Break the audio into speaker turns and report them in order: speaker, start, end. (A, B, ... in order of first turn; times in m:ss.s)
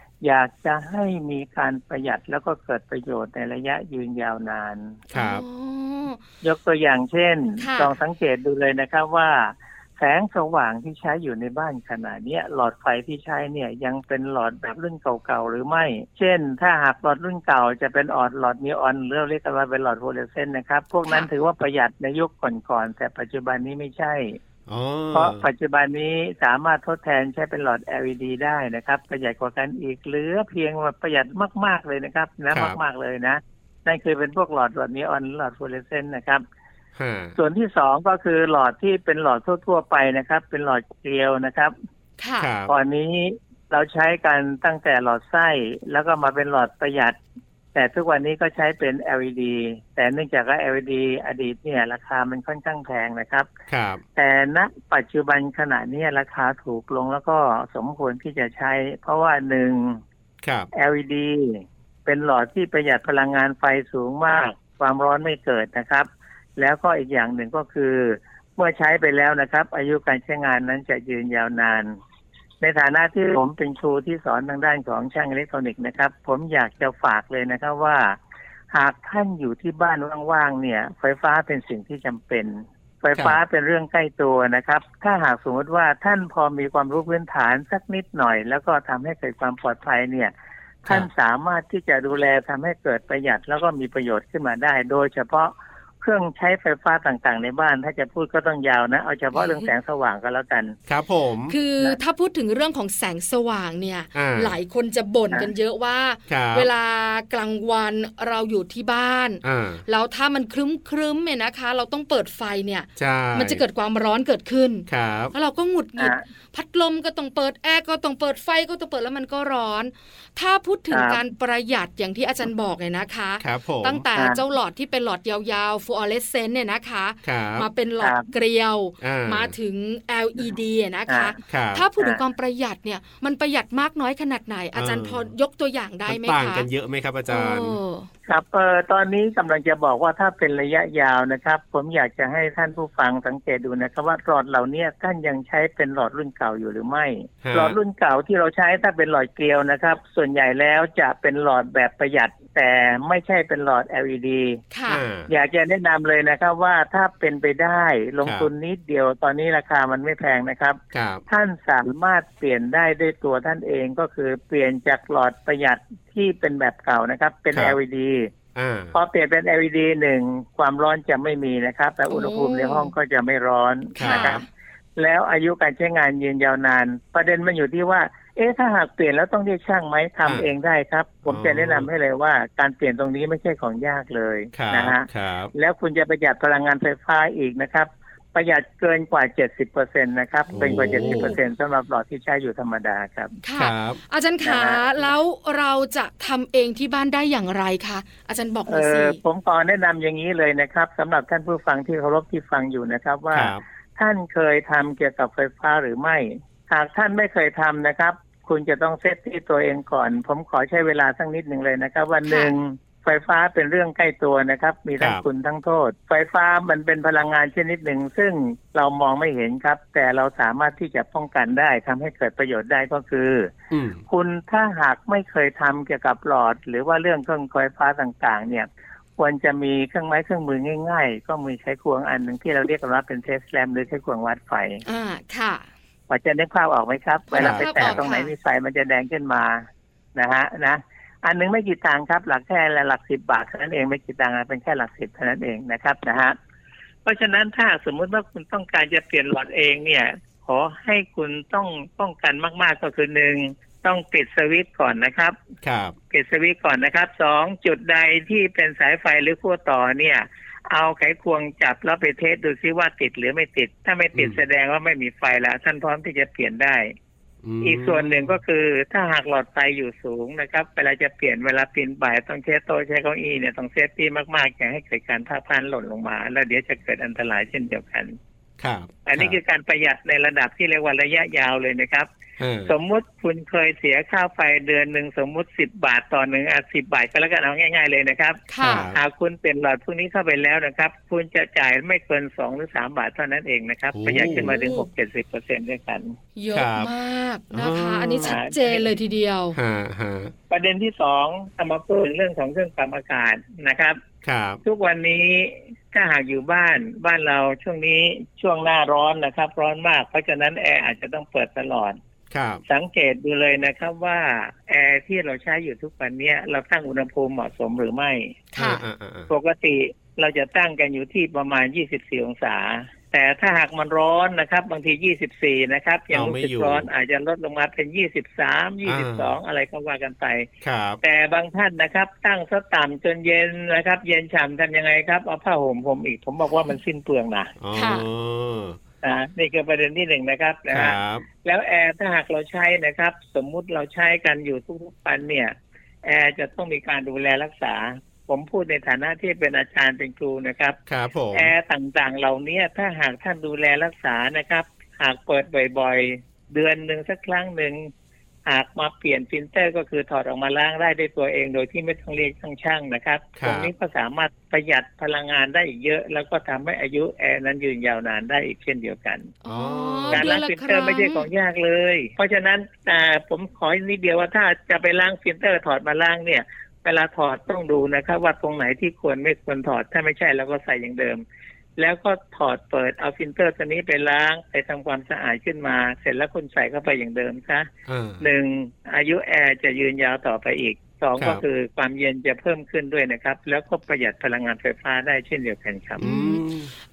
0:00.2-0:05.0 A
0:05.1-0:06.2 B
0:05.1-0:05.4 C
0:06.4-0:24.4 A
0:07.6-0:07.9 B
0:24.7-0:25.5 C
0:25.1-0:36.4 A
0:32.5-0:32.8 C
0:37.0-0:37.4 C
0:37.4-0:41.7 A
0:42.2-0:42.5 B
0:42.4-0:42.7 C
0:42.7-0:47.2 A
0:47.7-0:53.5 A
0:53.7-0:54.0 C
0:54.2-1:00.0 A
1:00.4-1:00.7 C
1:00.7-1:12.0 A
1:12.6-1:18.2 A
1:18.7-1:30.3 A
1:30.8-1:40.8 A
1:39.4-1:39.7 B
1:40.9-1:41.6 C
1:41.5-2:16.7 B
1:44.2-1:44.6 C
1:46.3-1:46.7 C
1:49.4-1:49.8 C
1:53.0-1:53.6 C
1:54.9-1:55.3 C
2:00.9-2:01.2 A
2:03.4-2:04.0 C
2:04.2-2:04.4 A
2:07.2-2:07.7 C
2:08.0-2:08.3 A
2:09.0-2:09.5 C
2:11.5-2:11.8 C
2:14.8-2:15.3 C
2:16.1-2:17.8 C
2:17.3-2:18.1 B
2:18.3-2:34.6 A
2:27.4-2:27.8 C
2:34.7-2:35.0 B
2:34.9-2:35.3 C
2:35.3-2:48.3 A
2:38.2-2:38.5 C
2:40.9-2:41.2 C
2:48.6-2:48.9 C
2:48.9-2:54.4 A
2:52.1-2:52.9 B
2:54.0-2:54.4 C
2:54.0-2:54.4 B
2:55.0-3:13.4 A
3:01.3-3:01.9 C
3:04.5-3:05.5 C
3:10.5-3:11.4 C
3:10.9-3:11.4 B
3:13.4-3:19.2 B
3:13.6-3:14.0 C
3:14.4-3:15.1 A
3:18.7-3:43.5 A
3:23.3-3:23.6 C
3:32.3-3:32.5 B
3:43.7-3:44.0 C
3:44.1-3:54.8 A
3:54.9-3:55.6 B
3:56.1-3:59.6 A
3:57.3-3:58.3 B
3:57.4-3:58.0 C
4:00.2-4:06.4 A
4:07.0-4:15.4 A
4:15.6-4:16.0 C
4:16.1-4:26.9 A
4:24.2-4:24.4 C
4:27.4-4:28.4 C
4:27.6-4:38.2 A
4:38.6-4:39.4 C
4:39.1-4:42.1 A
4:42.4-4:42.7 C
4:42.6-4:56.2 A
4:48.5-4:48.9 B
4:48.6-4:49.0 C
4:53.9-4:54.5 C
4:54.3-4:54.9 B
4:56.4-4:59.6 B
4:56.5-4:56.9 C
4:57.5-4:58.4 C
4:58.2-4:58.9 A
4:59.5-5:00.3 C
5:00.5-5:04.0 A
5:04.2-5:04.6 C
5:04.6-5:12.0 A
5:12.3-5:12.6 C
5:12.7-5:18.4 A
5:18.5-5:18.8 B
5:18.6-5:19.3 C
5:19.3-5:30.5 A
5:26.1-5:26.9 C
5:28.9-5:29.3 C
5:30.6-5:31.0 C
5:31.0-5:37.5 A
5:37.6-5:38.8 C
5:37.7-5:38.1 B
5:39.0-5:50.8 A
5:40.7-5:41.3 C
5:50.9-5:51.5 C
5:51.3-5:57.9 A
5:58.4-6:09.3 A
6:03.4-6:03.7 C
6:09.4-6:11.3 B
6:09.5-6:10.3 C
6:10.1-6:21.2 A
6:21.8-6:36.0 A
6:27.9-6:28.3 C
6:36.0-6:36.7 C
6:36.0-6:36.4 B